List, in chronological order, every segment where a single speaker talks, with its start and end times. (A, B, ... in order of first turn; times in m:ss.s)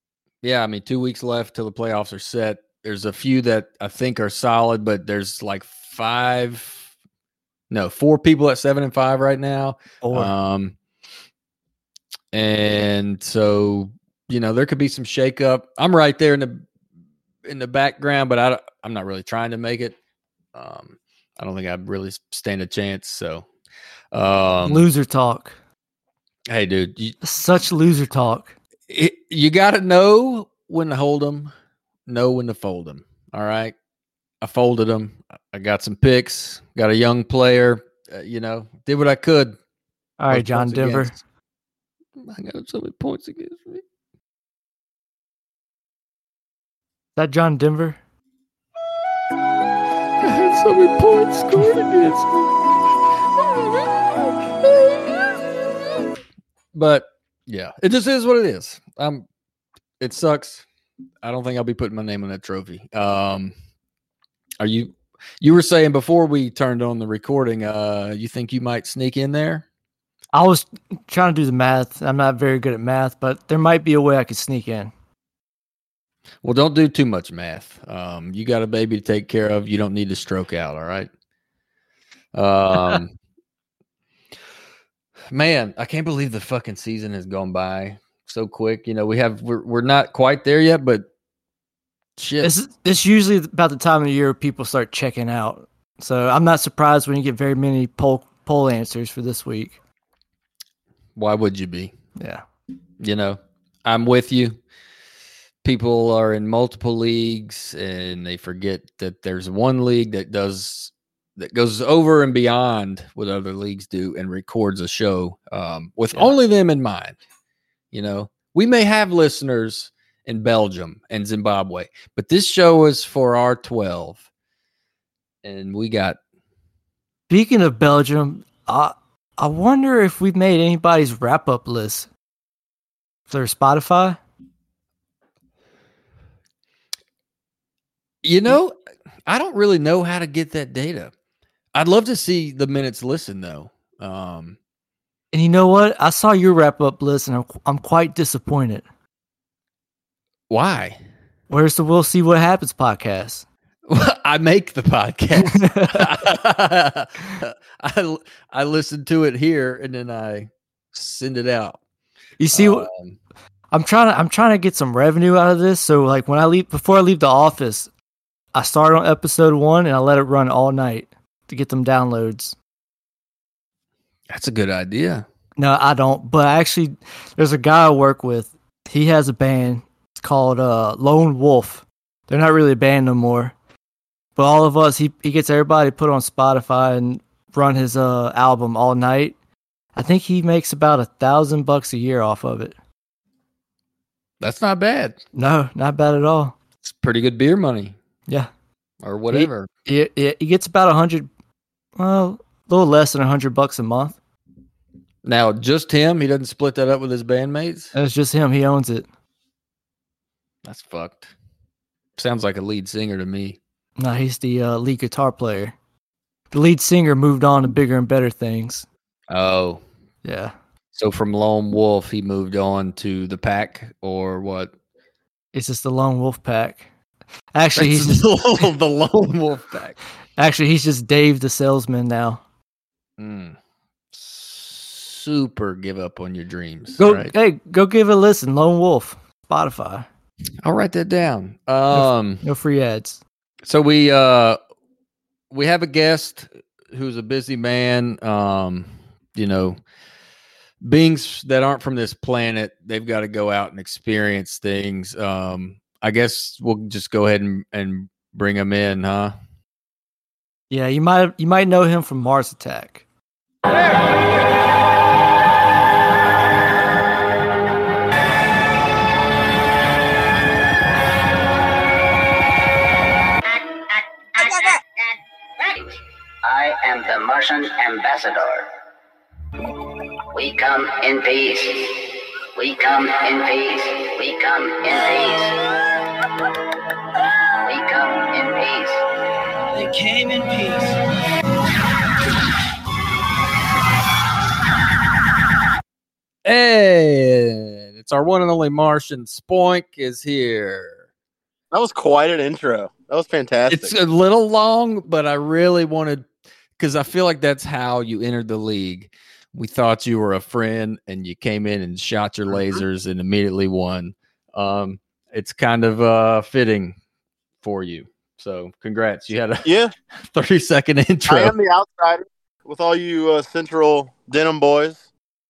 0:00.4-0:06.9 A
0:07.7-0:10.7 A
0:10.0-0:10.3 B
0:12.3-0:16.6 A
0:17.4-0:20.0 A
0:20.5-0:23.4 A
0:24.1-0:24.9 A
0:24.6-0:25.6 B
0:26.5-0:27.2 A
0:27.2-0:28.5 B
0:28.9-0:31.5 A
0:32.1-0:33.7 A
0:34.4-0:39.6 A
0:40.2-0:41.1 B
0:40.3-0:41.2 A
0:42.2-0:43.8 A
0:47.2-0:48.0 B
0:50.2-0:52.6 A
0:53.4-0:55.4 A
0:56.7-0:59.2 A
1:00.0-1:00.6 A
1:01.2-1:03.5 A
1:04.6-1:09.6 A
1:10.3-1:14.9 B
1:16.4-1:21.1 A
1:22.3-1:23.1 A
1:25.3-1:31.1 A
1:32.2-1:32.5 A
1:32.4-1:39.8 B
1:41.2-1:41.9 A
1:42.2-1:42.4 B
1:43.0-1:44.6 A
1:45.6-1:57.2 A
1:57.9-2:04.2 A
2:05.4-2:06.2 A
2:07.3-2:12.1 B
2:13.3-2:14.2 B
2:18.2-2:18.7 A
2:19.3-2:21.1 A
2:21.7-2:24.6 A
2:25.3-2:28.8 B
2:30.5-2:31.0 A
2:31.5-2:33.4 B
2:33.9-2:41.8 A
2:35.4-2:36.0 B
2:42.4-2:42.9 B
2:42.5-2:43.2 A
2:43.7-2:47.9 B
2:48.5-2:52.6 B
2:54.3-2:55.2 A
2:55.6-3:03.5 B
3:04.4-3:09.3 B
3:10.0-3:12.7 B
3:14.4-3:15.2 A
3:15.3-3:16.5 B
3:16.8-3:18.0 A
3:19.0-3:19.7 A
3:19.3-3:21.3 B
3:22.0-3:24.2 B
3:25.2-3:27.9 A
3:27.9-3:29.1 B
3:30.6-3:31.3 A
3:32.2-3:33.6 A
3:34.0-3:35.8 B
3:36.5-3:38.9 B
3:39.3-3:39.8 A
3:40.2-3:40.5 B
3:40.9-3:44.7 A
3:45.5-3:46.8 B
3:47.5-3:48.3 B
3:47.8-3:50.0 A
3:50.4-3:52.4 B
3:53.2-3:53.6 A
3:54.1-3:57.3 A
3:57.0-4:00.1 B
4:00.6-4:02.4 A
4:01.9-4:03.2 B
4:03.6-4:04.6 A
4:05.5-4:09.8 A
4:10.8-4:19.3 A
4:20.7-4:23.0 B
4:33.5-4:38.7 C
4:40.3-4:45.6 C
4:47.6-4:49.0 C
4:49.7-4:50.9 A
4:56.4-5:01.0 A
5:01.7-5:03.9 D
5:03.7-5:06.2 A
5:06.8-5:17.0 A
5:12.5-5:12.8 D
5:17.6-5:19.7 A
5:19.6-5:19.9 D
5:20.3-5:21.5 A
5:21.3-5:25.0 D